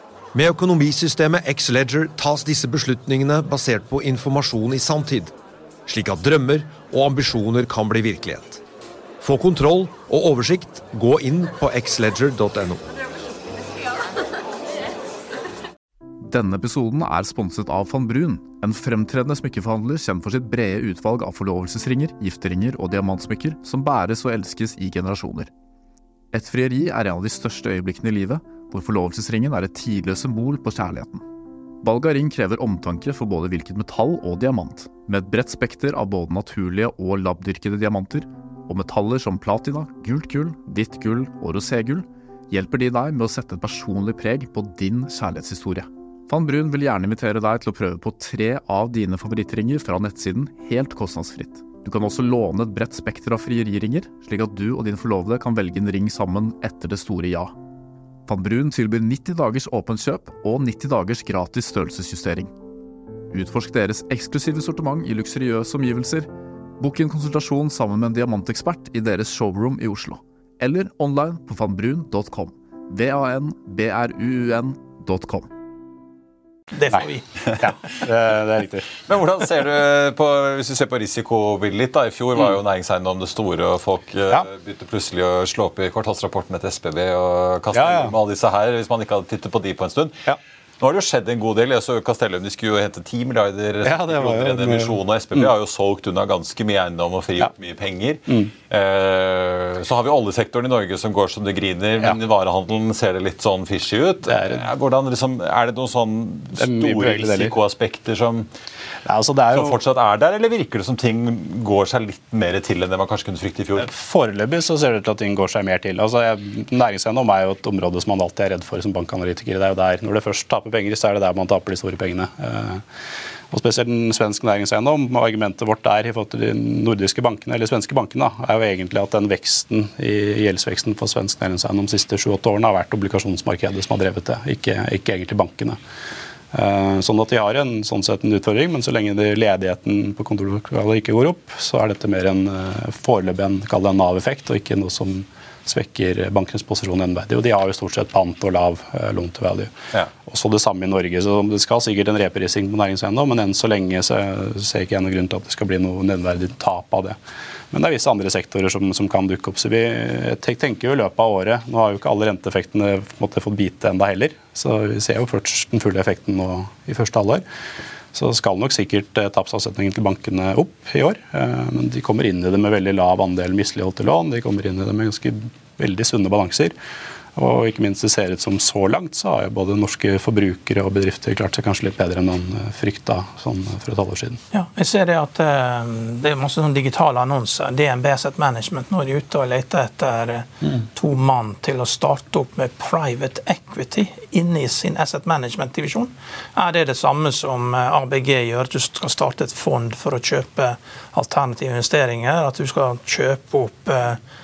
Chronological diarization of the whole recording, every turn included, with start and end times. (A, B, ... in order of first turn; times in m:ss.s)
0:00.3-0:05.3 A
0:05.9-0:08.6 A
0:09.2-0:12.8 A
0:16.2-0:25.5 B
0:26.3-0:31.2 B
0:31.8-0:57.5 B
0:58.3-1:02.5 B
1:03.3-1:06.3 B
1:06.8-1:15.5 B
1:16.7-1:17.2 C
1:17.6-1:19.0 D
1:19.0-1:30.2 E
1:27.7-1:28.1 D
1:30.8-1:48.5 E
1:33.8-1:35.5 D
1:44.2-1:44.6 D
1:46.6-1:47.5 D
1:49.0-1:49.8 D
1:49.5-1:53.9 E
1:53.8-2:02.8 D
2:03.5-2:15.8 D
2:16.5-2:29.7 D
2:30.2-2:37.2 D
2:37.7-2:47.4 D
2:48.1-2:56.7 D
2:57.4-3:04.4 D
3:04.5-3:24.2 C